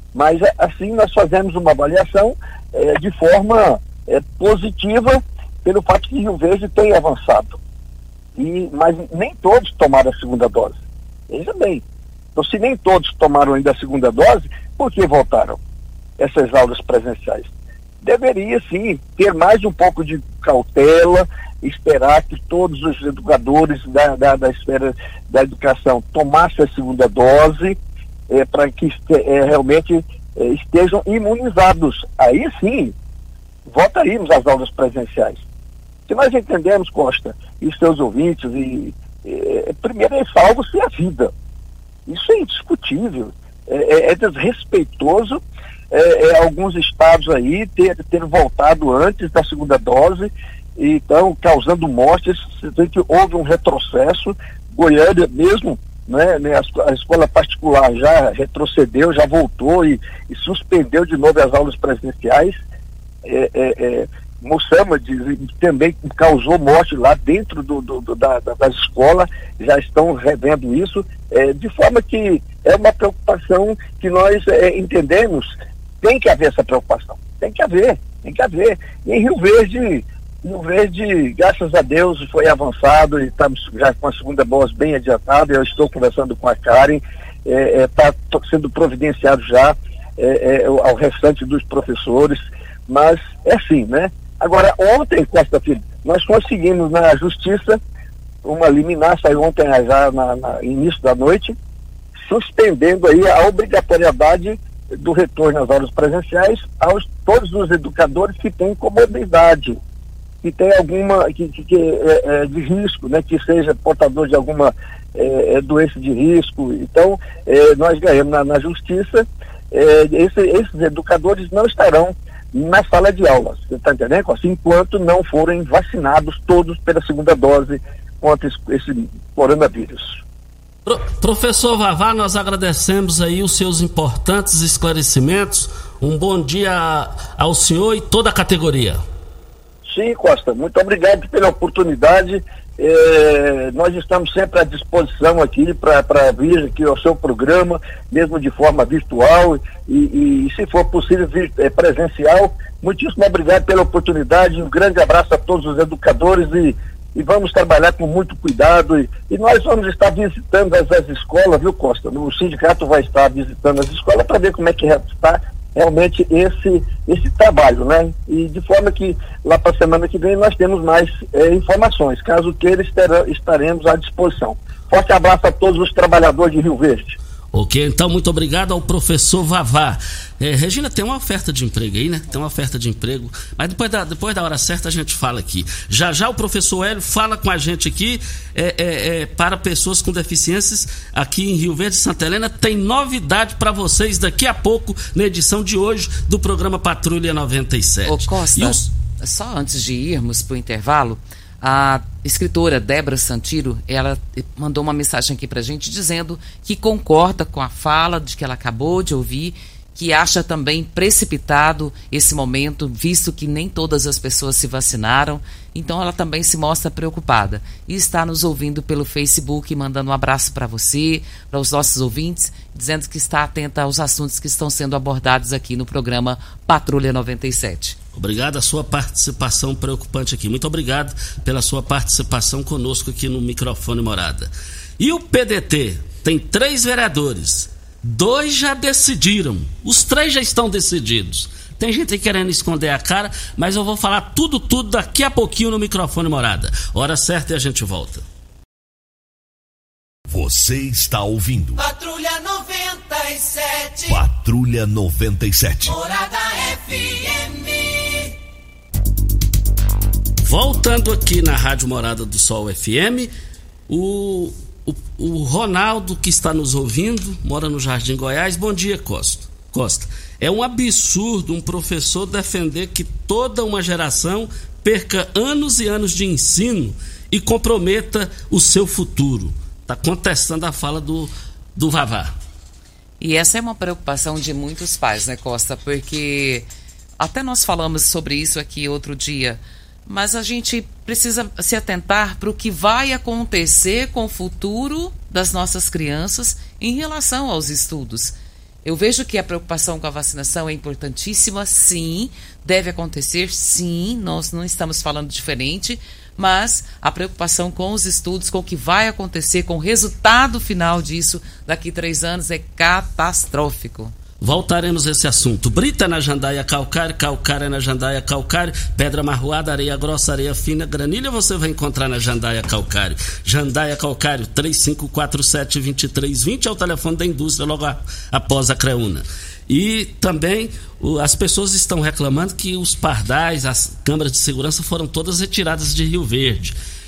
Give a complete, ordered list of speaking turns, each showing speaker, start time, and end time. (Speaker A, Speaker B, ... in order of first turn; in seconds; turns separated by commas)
Speaker A: 0.1-7.6, Speaker A: 8.4-11.8, Speaker A: 12.3-15.6, Speaker A: 16.2-17.5, Speaker A: 18.0-27.8, Speaker A: 28.3-33.0, Speaker A: 33.7-35.4, Speaker A: 36.1-41.3, Speaker A: 42.1-62.6, Speaker A: 63.2-97.8, Speaker A: 98.5-101.6, Speaker A: 102.3-109.8, Speaker A: 110.4-130.2, Speaker B: 130.9-139.0, Speaker A: 139.8-177.2, Speaker B: 177.5-198.8, Speaker C: 198.1-228.0, Speaker B: 228.2-248.2, Speaker D: 250.3-251.8, Speaker E: 251.8-254.2, Speaker D: 254.1-255.9, Speaker E: 255.8-258.3, Speaker B: 260.4-263.3, Speaker B: 263.9-282.3, Speaker C: 283.2-286.7, Speaker C: 287.2-314.1, Speaker B: 314.4-336.8